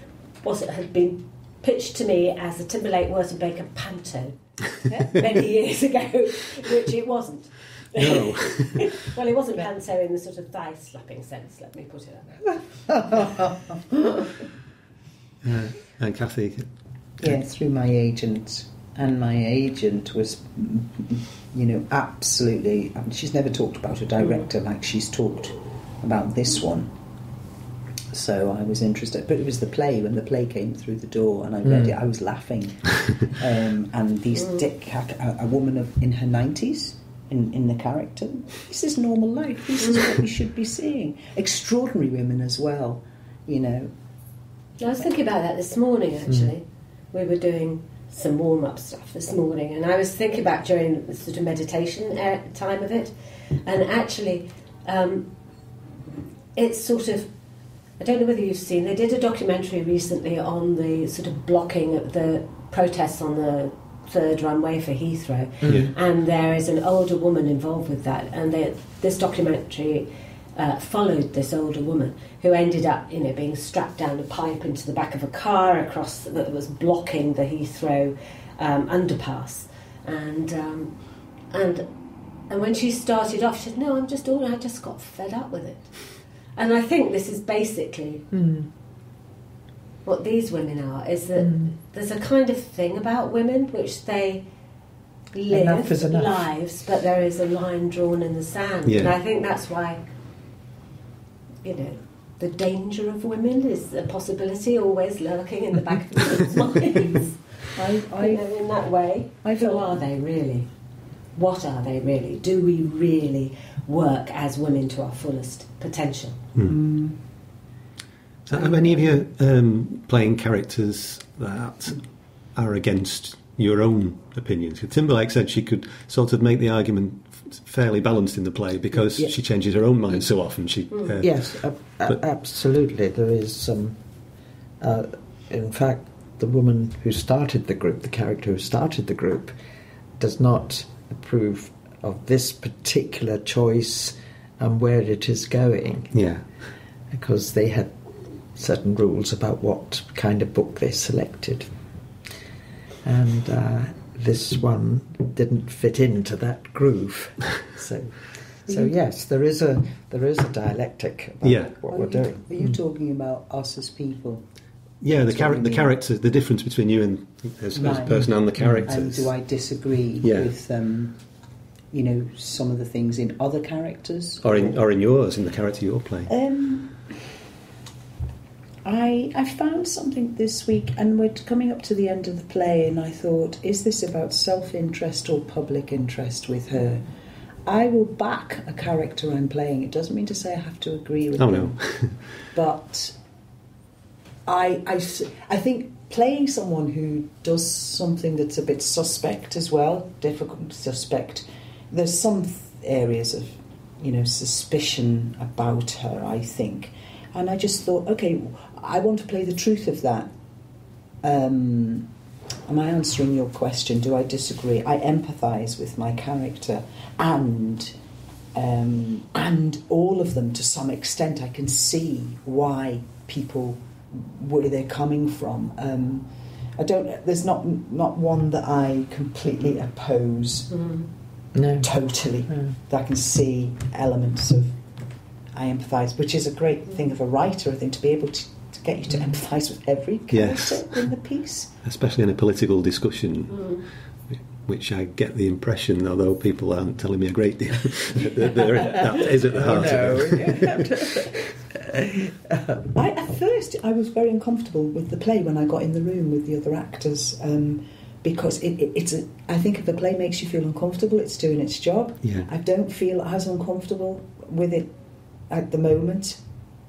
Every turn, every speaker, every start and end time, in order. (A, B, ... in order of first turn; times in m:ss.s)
0:00.4-0:12.4 A
0:08.0-0:08.8 B
0:12.9-0:14.2 C
0:15.4-0:16.7 B
0:17.2-0:26.9 C
0:28.1-0:43.9 C
0:31.6-0:31.9 D
0:44.8-0:53.1 A
0:53.6-0:55.3 A
0:56.5-0:57.3 A
0:58.0-1:21.9 A
1:05.6-1:05.9 D
1:05.6-1:05.9 B
1:22.5-1:28.2 A
1:28.3-1:28.7 D
1:30.0-1:34.4 A
1:31.4-1:31.8 D
1:35.3-1:40.0 A
1:35.5-1:36.4 D
1:38.8-1:39.1 B
1:41.6-1:50.7 A
1:47.7-1:48.4 C
1:49.4-1:50.0 C
1:51.3-1:56.5 A
1:56.6-1:57.2 C
1:58.5-2:12.2 B
2:11.2-2:14.0 D
2:14.8-2:19.5 D
2:20.2-2:26.1 D
2:26.1-2:26.4 B
2:27.1-2:27.9 D
2:28.5-2:31.7 D
2:33.0-2:42.7 D
2:41.4-2:41.7 B
2:41.9-2:44.4 C
2:45.0-2:49.3 B
2:45.1-2:45.9 C
2:47.8-2:51.2 C
2:50.2-2:50.5 B
2:51.9-2:54.8 C
2:54.4-2:56.3 B
2:56.3-2:57.0 C
2:58.8-3:07.0 C
3:07.6-3:13.1 C
3:11.4-3:12.2 B
3:14.4-3:30.3 C
3:31.2-3:32.1 C
3:32.7-3:37.9 C
3:38.5-3:50.8 C
3:50.7-3:51.0 A
3:51.5-3:52.7 D
3:51.8-3:54.8 C
3:55.5-4:01.7 C
4:00.3-4:01.0 B
4:01.8-4:03.8 B
4:04.3-4:10.9 B
4:09.5-4:12.8 D
4:12.9-4:24.9 C
4:25.5-4:26.4 C